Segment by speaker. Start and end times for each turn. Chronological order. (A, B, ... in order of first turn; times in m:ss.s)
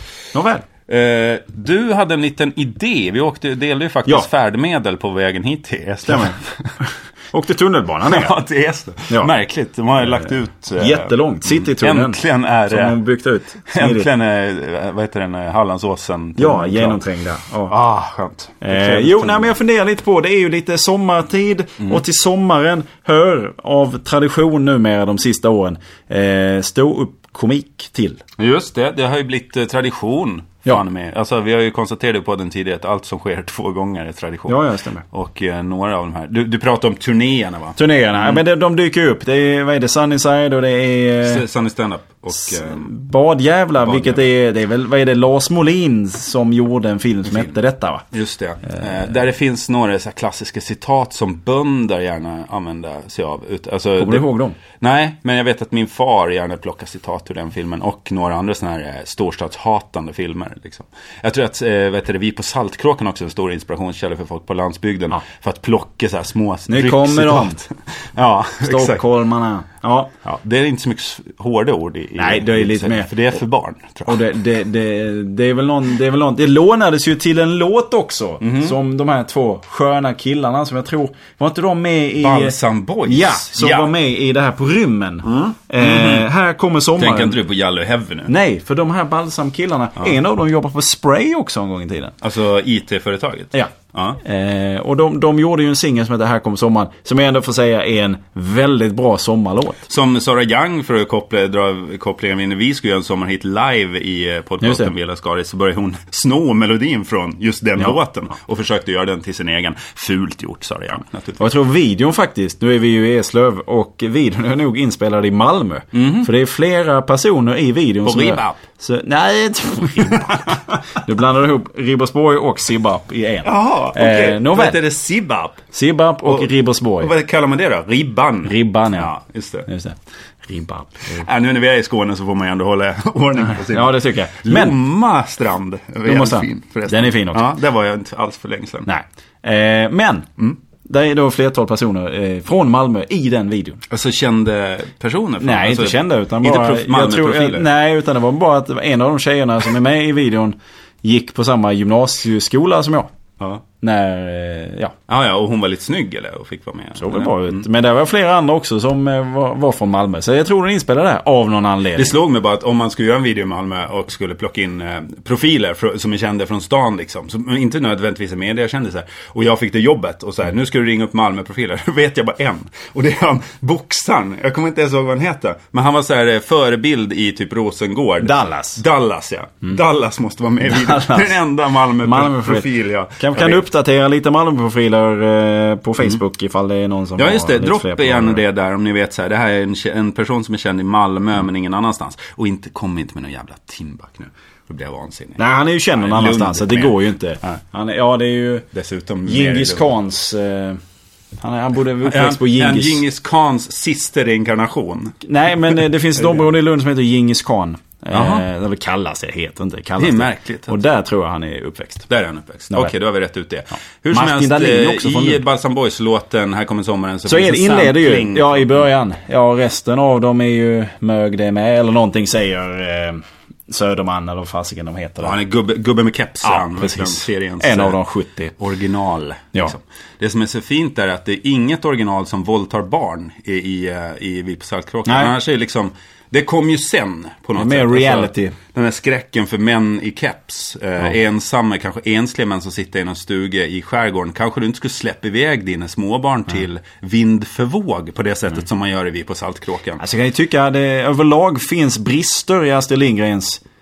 0:00.3-0:00.7 A
0:00.9-0:06.8 B
0:06.1-0:08.3 A
0:08.0-0:13.0 B
0:10.0-0:14.1 A
0:13.7-0:17.0 B
0:16.4-0:17.7 A
0:17.7-0:19.5 B
0:18.6-0:28.2 A
0:28.4-0:38.4 B
0:34.5-0:35.0 A
0:37.8-0:41.4 A
0:41.2-0:42.9 B
0:42.4-0:48.1 A
0:43.8-0:44.3 B
0:47.3-0:47.6 B
0:48.1-0:54.3 B
0:54.0-0:54.6 A
0:54.8-1:09.0 B
1:06.7-1:07.6 A
1:08.6-1:10.1 A
1:10.2-1:14.2 B
1:12.2-1:13.1 A
1:14.1-1:22.6 A
1:18.4-1:18.8 B
1:22.2-1:23.9 B
1:23.1-1:27.4 A
1:25.3-1:26.3 B
1:27.0-1:28.3 B
1:28.3-1:32.2 A
1:32.2-1:34.2 B
1:33.5-1:39.9 A
1:39.9-1:51.5 B
1:44.6-1:44.9 A
1:51.4-2:04.8 A
1:55.9-1:56.3 B
1:58.0-1:58.6 B
2:00.1-2:00.8 B
2:03.4-2:05.6 B
2:05.7-2:07.1 A
2:07.0-2:09.7 B
2:08.5-2:09.1 A
2:09.7-2:11.3 A
2:11.1-2:18.9 B
2:13.4-2:14.8 A
2:16.0-2:17.5 A
2:18.9-2:20.3 A
2:20.8-2:23.8 A
2:23.9-2:27.7 B
2:25.4-2:33.1 A
2:33.8-2:34.9 A
2:35.1-2:37.6 B
2:37.0-2:42.2 A
2:42.0-3:03.6 B
2:58.2-2:58.8 A
3:00.6-3:01.4 A
3:02.0-3:08.4 A
3:07.2-3:15.4 B
3:15.4-3:18.7 A
3:16.0-3:17.6 B
3:18.7-3:19.9 B
3:19.3-3:20.8 A
3:21.4-3:23.0 A
3:22.0-3:25.2 B
3:25.2-3:32.1 A
3:28.1-3:28.4 B
3:30.0-3:30.8 B
3:32.1-3:38.8 B
3:34.1-3:35.4 A
3:37.3-3:45.4 A
3:45.2-3:48.0 B
3:46.4-3:48.6 A
3:48.6-4:10.0 B
3:55.1-3:55.3 A
3:57.6-3:58.6 A
4:10.0-4:13.6 A